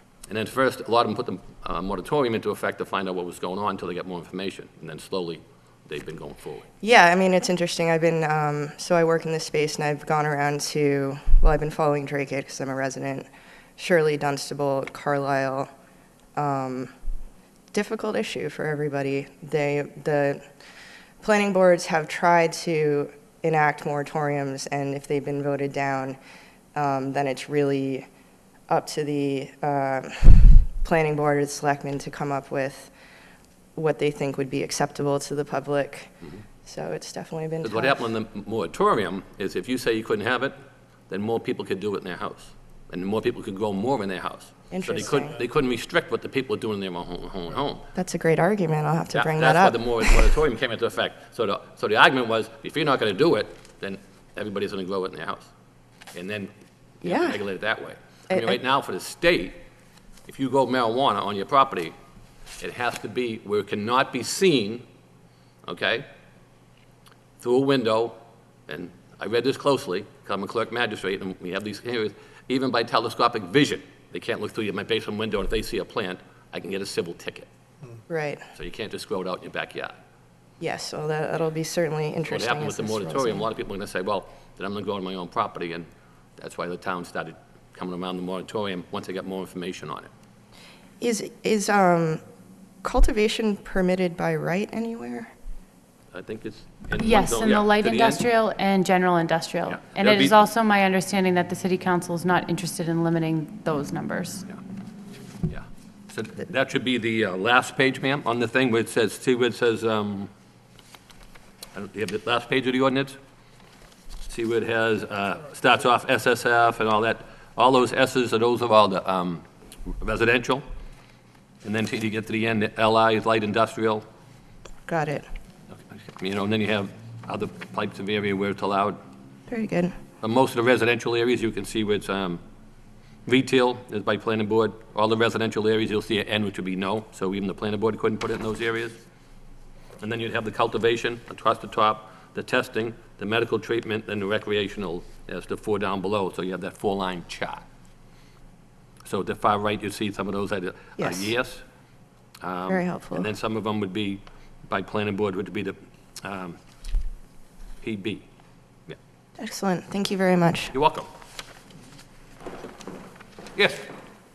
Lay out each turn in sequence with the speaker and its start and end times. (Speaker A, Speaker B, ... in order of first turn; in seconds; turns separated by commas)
Speaker A: 0.3-6.7, Speaker B: 6.8-15.7, Speaker B: 16.4-16.9, Speaker B: 17.7-20.4, Speaker B: 21.2-26.2, Speaker B: 26.8-28.1, Speaker B: 28.7-32.9, Speaker B: 33.8-36.1, Speaker B: 36.6-38.1, Speaker A: 37.6-40.6, Speaker A: 41.1-47.9, Speaker B: 44.7-45.4, Speaker B: 48.0-50.3, Speaker A: 49.1-55.5, Speaker A: 56.1-56.5, Speaker A: 57.0-59.6, Speaker B: 57.0-57.4, Speaker B: 58.3-58.6, Speaker A: 60.3-61.9, Speaker A: 62.6-64.8, Speaker A: 65.7-66.1, Speaker A: 67.4-68.2, Speaker A: 68.7-77.5, Speaker B: 78.1-78.5, Speaker A: 78.5-80.0, Speaker B: 80.6-83.5, Speaker A: 82.3-90.1, Speaker B: 91.0-92.2, Speaker B: 92.8-95.3, Speaker A: 96.1-98.2, Speaker C: 97.0-104.5, Speaker A: 99.7-100.4, Speaker A: 105.5-110.3, Speaker A: 111.8-113.2, Speaker A: 114.3-119.4, Speaker A: 120.0-120.6, Speaker A: 121.6-124.0, Speaker B: 124.9-125.3, Speaker A: 125.9-129.0, Speaker B: 129.5-129.9, Speaker A: 130.2-132.4, Speaker A: 133.3-139.0, Speaker A: 140.0-147.7, Speaker A: 149.1-151.6, Speaker B: 151.0-151.3, Speaker A: 152.4-156.6, Speaker B: 152.7-153.3, Speaker A: 157.8-158.2, Speaker B: 159.4-160.7, Speaker A: 160.7-161.1, Speaker A: 163.6-163.9